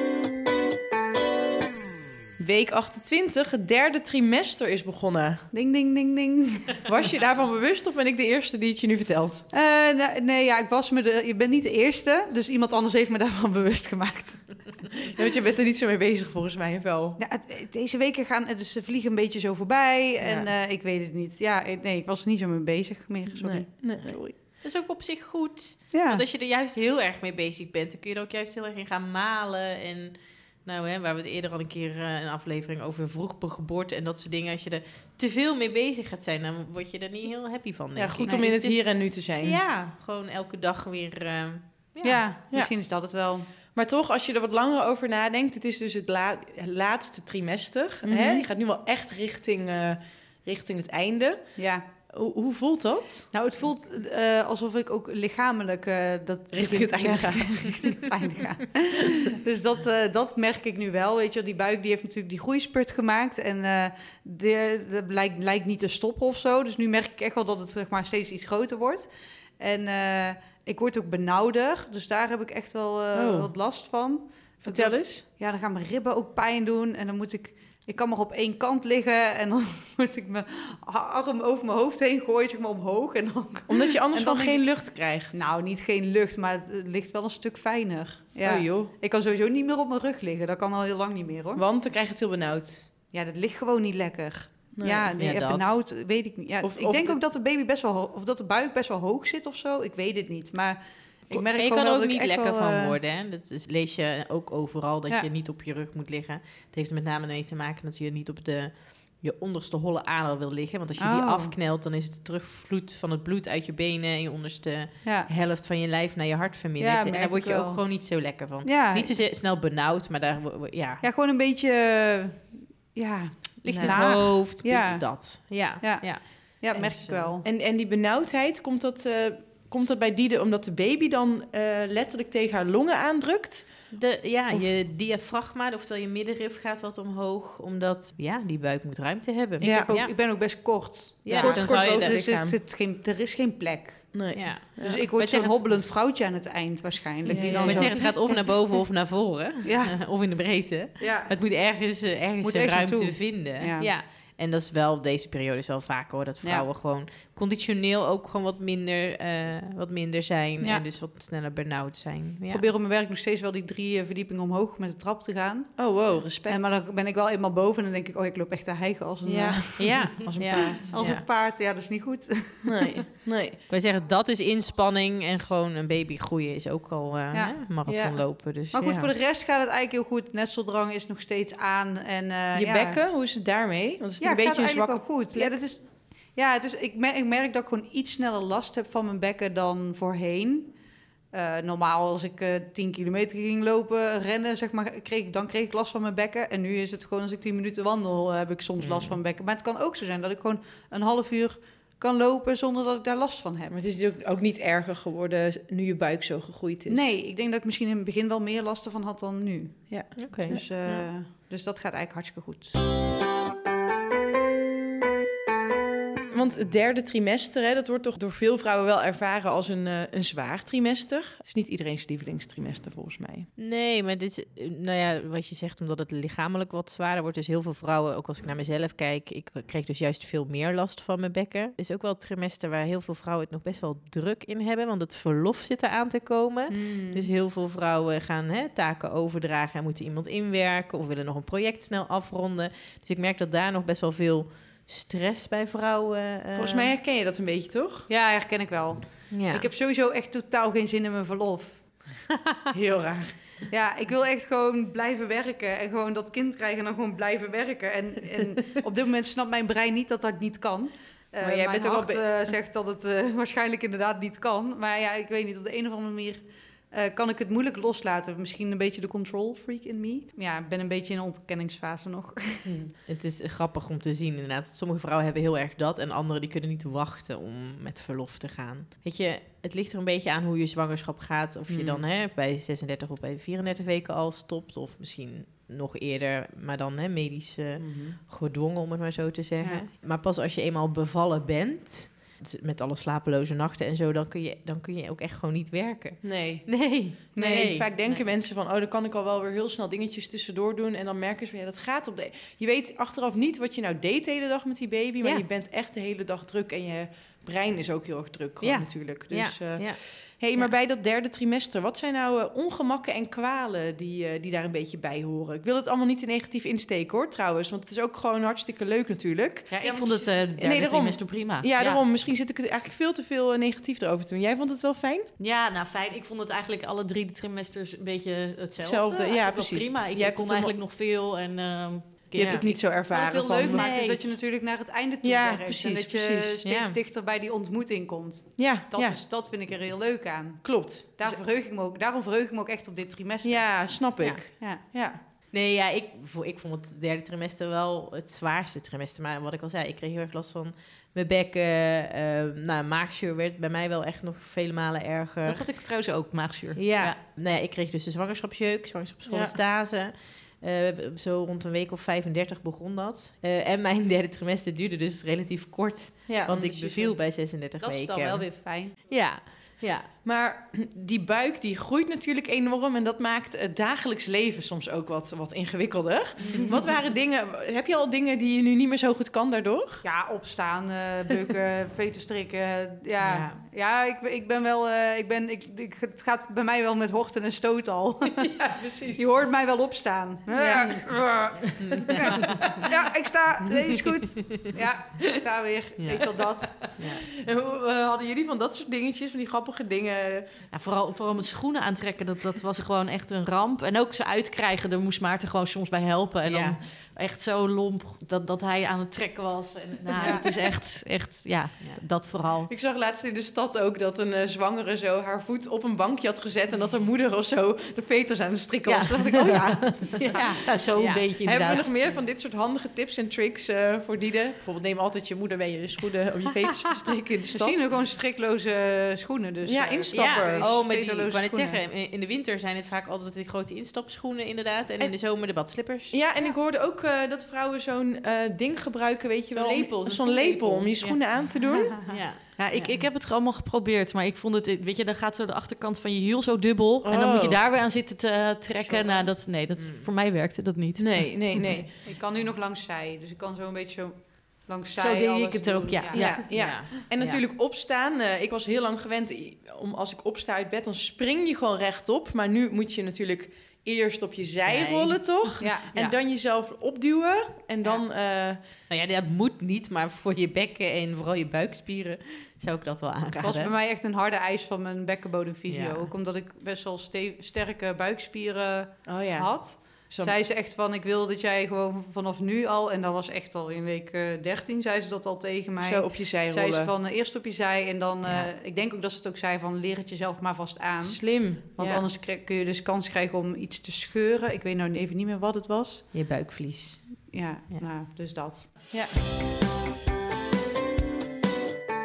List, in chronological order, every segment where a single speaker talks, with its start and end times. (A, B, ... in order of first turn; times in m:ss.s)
0:02.4-0:05.5 A
0:05.5-0:06.8 B
0:06.8-0:09.4 A
0:09.5-0:14.9 B
0:15.1-0:17.2 A
0:17.2-0:23.8 B
0:20.2-0:20.5 A
0:23.4-0:24.3 A
0:24.6-0:42.2 C
0:25.9-0:26.2 B
0:38.0-0:39.6 A
0:38.2-0:38.5 B
0:42.0-0:43.5 B
0:43.5-0:53.3 A
0:48.0-0:48.4 B
0:51.6-0:51.8 B
0:53.3-1:31.6 B
0:56.5-0:57.8 A
1:13.1-1:13.5 A
1:14.6-1:15.2 A
1:23.7-1:25.4 A
1:28.4-1:28.9 A
1:31.5-1:32.9 A
1:33.1-1:42.6 B
1:34.7-1:35.1 A
1:35.2-1:35.8 C
1:36.6-1:37.2 A
1:41.6-2:01.0 C
1:42.3-1:43.0 A
1:51.0-1:51.5 B
1:55.0-1:55.3 B
1:56.8-1:59.2 B
2:01.0-2:07.4 B
2:03.6-2:07.3 C
2:03.7-2:04.4 A
2:07.4-2:14.8 A
2:13.9-2:22.2 C
2:19.6-2:19.9 A
2:19.6-2:28.3 B
2:21.3-2:22.6 A
2:24.1-2:25.1 A
2:24.3-2:25.9 C
2:27.3-2:28.2 A
2:27.3-2:42.7 C
2:29.6-2:30.3 B
2:31.0-2:31.8 B
2:32.4-2:33.9 B
2:36.4-2:36.7 B
2:40.6-2:40.8 B
2:42.5-2:53.0 B
2:45.8-2:46.7 A
2:49.2-2:50.9 A
2:49.8-2:51.2 C
2:52.6-2:53.6 A
2:53.7-2:59.1 C
2:57.3-2:57.6 B
2:57.8-2:58.2 A
2:58.7-3:03.0 B
3:02.5-3:05.6 A
3:04.2-3:23.7 B
3:18.8-3:19.2 C
3:23.7-3:27.1 A
3:26.9-3:32.8 B
3:29.9-3:30.6 A
3:30.2-3:31.0 C
3:36.3-3:43.5 A
3:43.6-4:06.9 C
3:56.7-3:57.3 B
4:06.5-4:08.1 A
4:08.1-4:12.2 B
4:09.3-4:09.6 C
4:12.7-4:13.7 A
4:13.7-4:32.7 B
4:21.4-4:22.5 A
4:32.6-4:32.9 A
4:33.1-4:58.3 C
4:41.7-4:42.0 A
4:47.8-4:48.2 A
4:56.2-5:25.3 A
4:57.3-4:57.8 B
5:08.6-5:10.7 C
5:19.7-5:22.0 D
5:25.4-5:32.8 D
5:28.8-5:30.7 A
5:32.3-5:33.9 A
5:32.4-5:32.6 C
5:32.6-5:44.8 B
5:33.7-5:34.2 C
5:35.2-5:36.6 A
5:36.6-5:37.0 C
5:38.6-5:39.2 A
5:40.6-5:41.4 A
5:43.4-5:45.2 A
5:44.2-5:55.8 C
5:55.4-5:57.2 D
5:56.7-6:10.1 C
5:59.2-5:59.6 A
6:06.3-6:07.2 A
6:07.4-6:09.0 B
6:10.2-6:20.0 A
6:16.4-6:16.8 B
6:20.0-6:37.0 B
6:23.2-6:23.5 C
6:28.6-6:29.3 A
6:30.5-6:31.6 A
6:31.9-6:32.7 C
6:36.1-6:40.6 A
6:36.9-6:37.3 C
6:40.7-6:52.7 D
6:46.4-6:46.8 C
6:52.7-7:00.6 A
6:58.8-7:01.9 D
7:00.3-7:00.6 B
7:00.9-7:01.4 C
7:01.4-7:07.8 A
7:07.6-7:11.8 B
7:09.6-7:10.8 A
7:10.1-7:16.2 C
7:15.0-7:15.4 A
7:16.1-7:22.2 A
7:19.5-7:21.5 C
7:21.0-7:21.8 B
7:22.1-7:23.1 C
7:22.6-7:31.7 D
7:27.0-7:27.6 A
7:28.8-7:30.1 C
7:31.0-7:31.9 A
7:32.0-7:36.6 B
7:35.0-7:36.6 D
7:36.1-7:48.6 A
7:36.3-7:37.4 C
7:44.6-7:45.5 C
7:45.6-7:46.2 B
7:48.9-7:53.7 C
7:53.4-8:16.1 B
7:55.7-7:56.1 C
7:59.0-8:00.4 A
8:05.8-8:06.9 A
8:11.0-8:12.0 A
8:16.1-8:17.9 C
8:17.3-8:18.7 B
8:18.9-8:19.2 A